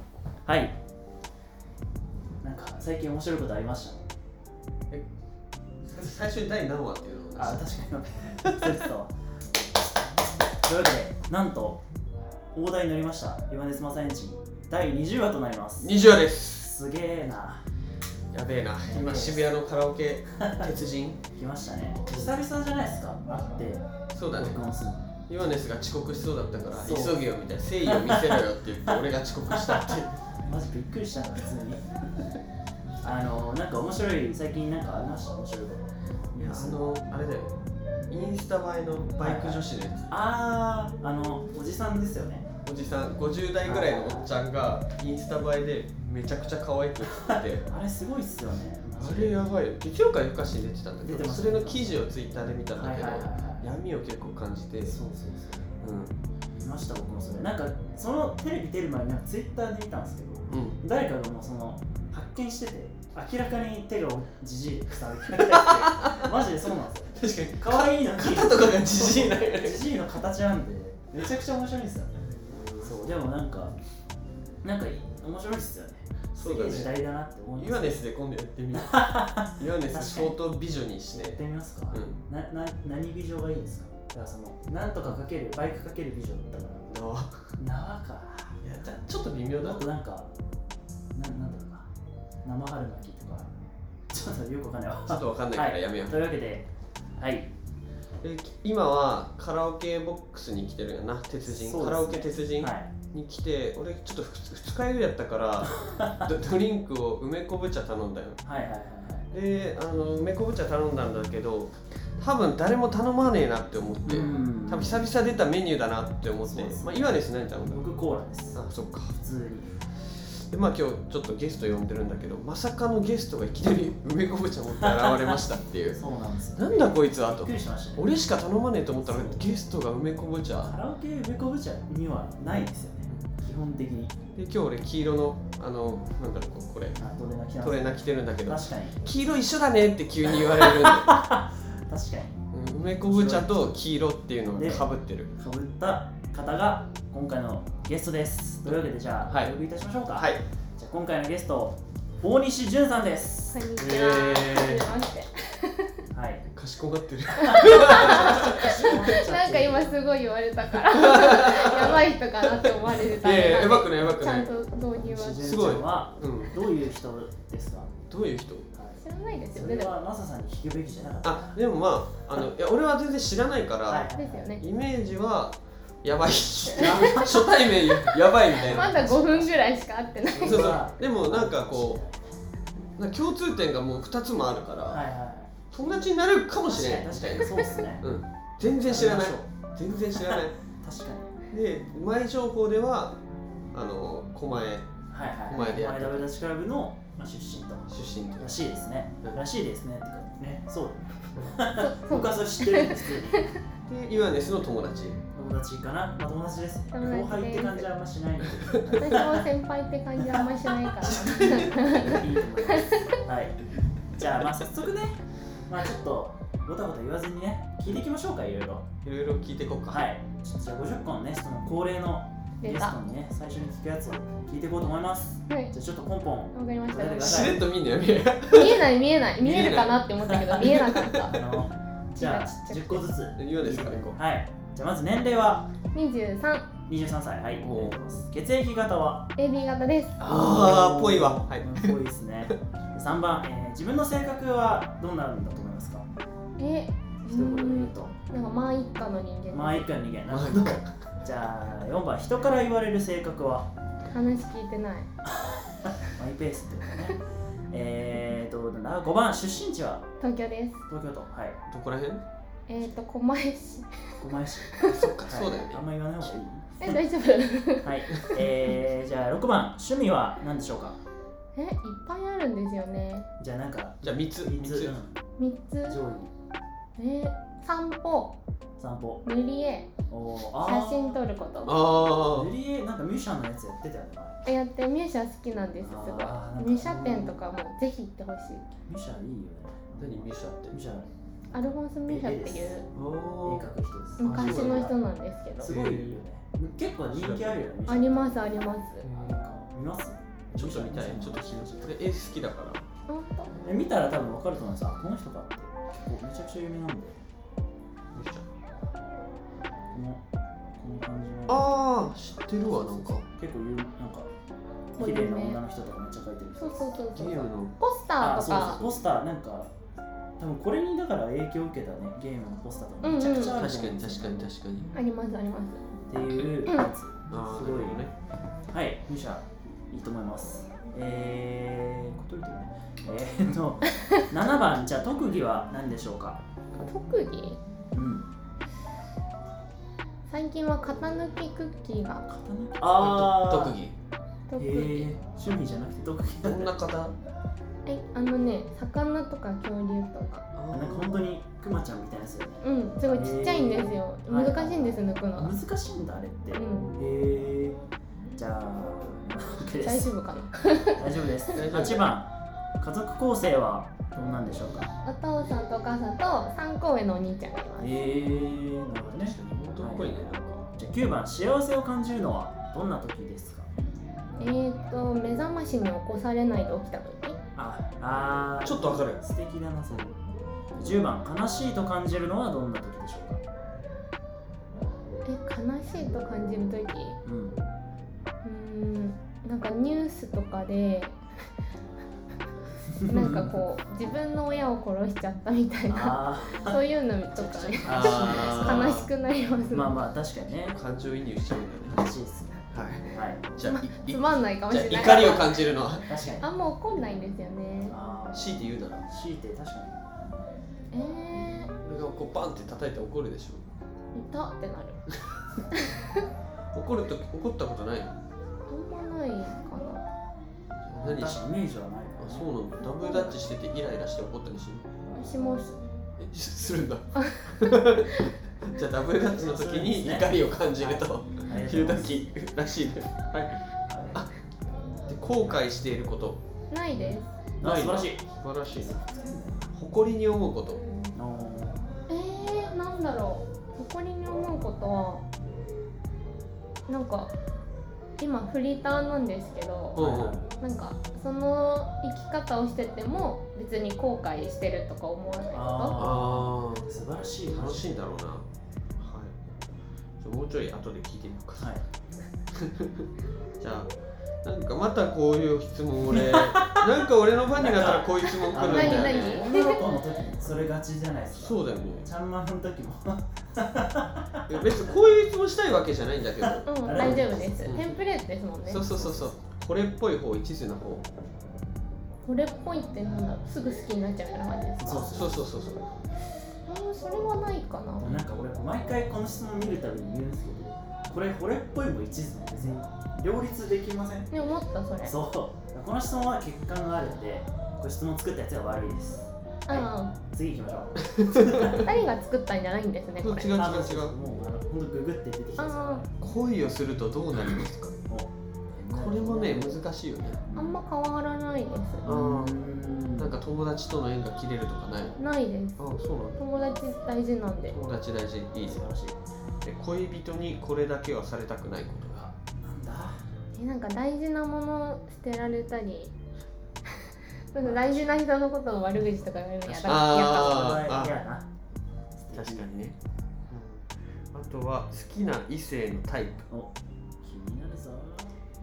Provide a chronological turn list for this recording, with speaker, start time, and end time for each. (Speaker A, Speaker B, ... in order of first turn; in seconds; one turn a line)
Speaker A: 0.4-0.8
Speaker A: 2.4-4.1
Speaker B: 5.8-7.7
Speaker A: 7.3-9.1
Speaker B: 8.4-8.7
Speaker A: 10.6-11.8
Speaker A: 12.5-17.6
Speaker B: 15.8-16.7
Speaker B: 18.3-21.2
Speaker A: 18.9-19.6
Speaker A: 20.4-20.7
Speaker A: 21.3-25.1
Speaker B: 22.1-22.3
Speaker B: 24.1-24.6
Speaker B: 25.3-30.1
Speaker A: 26.7-27.3
Speaker A: 27.8-32.2
Speaker A: 33.0-36.8
Speaker B: 36.4-37.5
Speaker B: 38.1-40.1
Speaker A: 39.2-42.5
Speaker B: 42.6-47.7
Speaker A: 43.6-44.3
Speaker A: 47.0-49.4
Speaker B: 49.0-55.0
Speaker A: 51.0-52.1
Speaker A: 52.7-53.8
Speaker A: 54.8-55.8
Speaker B: 55.8-56.1
Speaker A: 56.6-72.3
Speaker B: 60.5-60.8
Speaker B: 65.3-66.3
Speaker B: 67.2-69.9
Speaker B: 72.3-72.9
Speaker A: 72.8-73.8
Speaker A: 74.6-78.0
Speaker B: 76.3-82.2
Speaker A: 78.8-80.4
Speaker A: 81.1-86.9
Speaker B: 86.9-87.5
Speaker A: 87.6-88.6
Speaker B: 88.6-89.8
Speaker A: 89.6-90.3
Speaker A: 91.1-91.9
Speaker A: 92.4-93.5
Speaker A: 94.1-97.5
Speaker B: 95.0-96.2
Speaker B: 98.2-108.4
Speaker A: 101.4-102.9
Speaker A: 105.6-106.3
Speaker A: 108.4-109.3
Speaker B: 109.3-117.8
Speaker A: 114.0-115.1
Speaker A: 116.5-118.6
Speaker B: 118.5-119.2
Speaker A: 119.1-119.7
Speaker B: 120.1-126.0
Speaker A: 124.7-128.1
Speaker B: 126.5-130.7
Speaker A: 129.0-129.5
Speaker A: 130.6-134.2
Speaker B: 134.3-137.0
Speaker A: 137.0-139.1
Speaker B: 137.6-141.1
Speaker A: 140.3-142.4
Speaker B: 142.5-145.3
Speaker A: 143.0-143.8
Speaker A: 144.5-154.2
Speaker B: 148.7-149.5
Speaker B: 150.1-150.4
Speaker C: 153.5-156.0
Speaker B: 153.8-154.8
Speaker A: 156.1-156.5
Speaker B: 156.5-159.1
Speaker C: 157.4-165.4
Speaker A: 157.5-160.0
Speaker B: 160.8-164.5
Speaker A: 164.9-168.0
Speaker B: 165.4-166.6
Speaker B: 168.1-168.7
Speaker A: 168.7-169.0
Speaker C: 169.0-170.0
Speaker A: 169.5-171.6
Speaker B: 171.2-179.2
Speaker A: 173.8-174.6
Speaker C: 174.2-174.6
Speaker A: 176.8-177.6
Speaker C: 176.8-178.1
Speaker A: 178.4-179.7
Speaker C: 178.7-180.8
Speaker A: 180.3-182.3
Speaker B: 180.4-182.0
Speaker B: 182.9-185.0
Speaker A: 184.9-186.0
Speaker B: 185.7-190.6
Speaker A: 186.6-188.1
Speaker A: 188.6-191.3
Speaker B: 191.5-193.2
Speaker B: 193.7-194.9
Speaker A: 195.1-203.4
Speaker B: 195.5-196.2
Speaker B: 197.9-198.6
Speaker C: 201.7-203.6
Speaker B: 203.8-205.2
Speaker A: 205.3-209.4
Speaker C: 206.9-207.9
Speaker B: 208.7-209.4
Speaker C: 209.0-213.2
Speaker B: 210.8-212.0
Speaker A: 211.2-218.9
Speaker B: 219.0-220.1
Speaker A: 219.9-227.6
Speaker C: 222.6-223.0
Speaker C: 226.5-227.5
Speaker B: 227.1-230.0
Speaker C: 228.5-231.4
Speaker A: 230.2-235.7
Speaker B: 230.6-231.2
Speaker C: 232.1-233.1
Speaker B: 233.3-234.2
Speaker C: 235.9-236.7
Speaker A: 236.9-239.3
Speaker B: 237.6-238.0
Speaker C: 239.4-240.2
Speaker A: 240.2-246.1
Speaker B: 240.2-241.9
Speaker C: 246.6-249.9
Speaker A: 247.2-248.1
Speaker A: 249.5-253.7
Speaker B: 250.3-250.9
Speaker C: 254.1-255.1
Speaker A: 255.2-257.2
Speaker A: 257.7-260.1
Speaker C: 260.2-260.8
Speaker A: 260.9-261.6
Speaker B: 261.7-262.2
Speaker C: 262.7-264.0
Speaker A: 264.2-266.9
Speaker B: 264.8-265.8
Speaker C: 266.8-268.2
Speaker A: 267.8-271.0
Speaker B: 268.1-268.4
Speaker C: 271.6-273.3
Speaker A: 273.4-275.2
Speaker B: 274.0-274.9
Speaker C: 275.4-276.0
Speaker A: 275.8-276.3
Speaker C: 277.0-278.3
Speaker A: 278.8-279.2
Speaker C: 279.2-279.9
Speaker A: 280.1-281.2
Speaker C: 280.6-281.8
Speaker B: 281.6-282.5
Speaker A: 282.1-284.4
Speaker C: 284.4-288.8
Speaker A: 285.8-287.4
Speaker A: 288.9-292.8
Speaker B: 290.0-290.8
Speaker C: 291.5-292.9
Speaker B: 292.9-293.7
Speaker A: 293.4-294.9
Speaker C: 294.2-295.7
Speaker B: 294.2-294.9
Speaker A: 295.6-298.5
Speaker B: 295.6-296.2
Speaker B: 297.1-297.6
Speaker C: 297.9-299.1
Speaker B: 299.0-299.4
Speaker A: 299.0-301.9
Speaker B: 300.6-302.9
Speaker C: 303.1-303.5
Speaker A: 303.6-307.2
Speaker B: 308.1-308.4
Speaker A: 309.9-310.2
Speaker A: 310.8-311.8
Speaker B: 311.5-313.2
Speaker A: 312.7-314.3
Speaker A: 314.9-316.9
Speaker C: 315.0-315.6
Speaker C: 316.6-318.8
Speaker B: 317.1-317.7
Speaker A: 318.2-319.7
Speaker B: 318.5-319.0
Speaker A: 320.4-324.9
Speaker C: 323.0-323.6
Speaker B: 323.3-324.9
Speaker C: 324.9-325.9
Speaker A: 326.1-328.1
Speaker B: 327.3-328.1
Speaker A: 328.7-336.4
Speaker C: 336.8-337.6
Speaker A: 337.9-338.3
Speaker C: 340.3-342.2
Speaker A: 342.3-343.8
Speaker B: 342.8-343.9
Speaker C: 344.5-345.1
Speaker A: 344.6-346.7
Speaker B: 346.4-347.1
Speaker C: 347.9-350.4
Speaker B: 350.5-351.3
Speaker A: 350.7-357.8
Speaker C: 352.6-355.5
Speaker C: 356.5-356.9
Speaker A: 358.4-360.1
Speaker C: 359.8-361.5
Speaker A: 360.9-364.9
Speaker B: 361.5-362.1
Speaker C: 365.0-368.0
Speaker A: 367.8-373.7
Speaker B: 369.0-370.6
Speaker C: 374.4-377.4
Speaker A: 377.6-380.1
Speaker B: 378.6-379.2
Speaker A: 380.8-383.4
Speaker C: 385.2-387.2
Speaker A: 387.2-387.6
Speaker C: 388.4-391.2
Speaker A: 392.9-393.6
Speaker C: 393.1-400.0
Speaker A: 395.9-399.0
Speaker B: 397.9-399.1
Speaker A: 399.7-400.8
Speaker B: 400.7-402.1
Speaker A: 401.9-403.4
Speaker B: 402.7-406.1
Speaker C: 403.6-405.6
Speaker A: 406.0-406.4
Speaker C: 406.4-407.9
Speaker A: 407.9-408.6
Speaker B: 408.3-409.0
Speaker A: 409.1-410.2
Speaker C: 410.9-411.7
Speaker A: 411.3-411.8
Speaker B: 411.8-413.6
Speaker C: 414.1-415.0
Speaker C: 415.7-416.2
Speaker B: 416.7-418.1
Speaker C: 418.7-420.0
Speaker B: 420.8-421.4
Speaker A: 421.0-422.5
Speaker B: 422.2-424.9
Speaker C: 422.9-423.3
Speaker A: 425.1-425.6
Speaker C: 425.1-425.9
Speaker B: 426.2-433.6
Speaker C: 427.2-427.5
Speaker A: 429.4-432.3
Speaker A: 433.9-434.2
Speaker B: 435.1-436.4
Speaker C: 436.7-437.3
Speaker A: 437.6-439.7
Speaker B: 437.6-439.0
Speaker B: 439.7-440.8
Speaker A: 441.1-441.8
Speaker C: 442.1-445.2
Speaker C: 446.9-447.3
Speaker C: 448.2-450.0
Speaker B: 449.9-450.4
Speaker A: 449.9-450.5
Speaker C: 450.6-456.0
Speaker A: 455.5-458.1
Speaker B: 456.0-456.9
Speaker B: 457.4-458.4
Speaker B: 459.0-459.4
Speaker B: 460.2-461.7
Speaker A: 461.6-461.8
Speaker B: 462.5-463.1
Speaker B: 463.6-463.9
Speaker B: 464.4-469.5
Speaker A: 466.1-474.7
Speaker C: 468.7-469.8
Speaker B: 471.3-472.1
Speaker B: 474.5-477.9
Speaker A: 476.4-477.8
Speaker C: 476.6-479.3
Speaker B: 478.6-481.1
Speaker C: 482.2-485.1
Speaker A: 484.8-485.4
Speaker B: 485.1-486.0
Speaker C: 486.6-488.1
Speaker A: 488.0-494.3
Speaker C: 494.3-495.1
Speaker A: 495.0-501.9
Speaker C: 499.7-500.1
Speaker B: 501.0-501.8
Speaker C: 501.8-503.6
Speaker B: 503.2-504.1
Speaker A: 503.5-506.1
Speaker C: 505.6-506.0
Speaker B: 506.2-507.9
Speaker A: 508.1-509.8
Speaker B: 508.9-510.4
Speaker A: 510.3-510.8
Speaker C: 510.5-512.0
Speaker A: 512.0-513.4
Speaker B: 512.0-515.2
Speaker C: 515.2-515.8
Speaker B: 515.8-516.4
Speaker C: 516.4-517.8
Speaker B: 517.7-518.9
Speaker A: 518.6-519.2
Speaker B: 519.6-522.3
Speaker A: 522.1-523.2
Speaker C: 523.5-526.1
Speaker C: 527.5-530.9
Speaker A: 527.6-528.2
Speaker A: 529.6-531.5
Speaker B: 529.8-531.1
Speaker A: 532.2-532.7
Speaker B: 532.3-533.0
Speaker B: 533.5-536.5
Speaker A: 536.5-538.3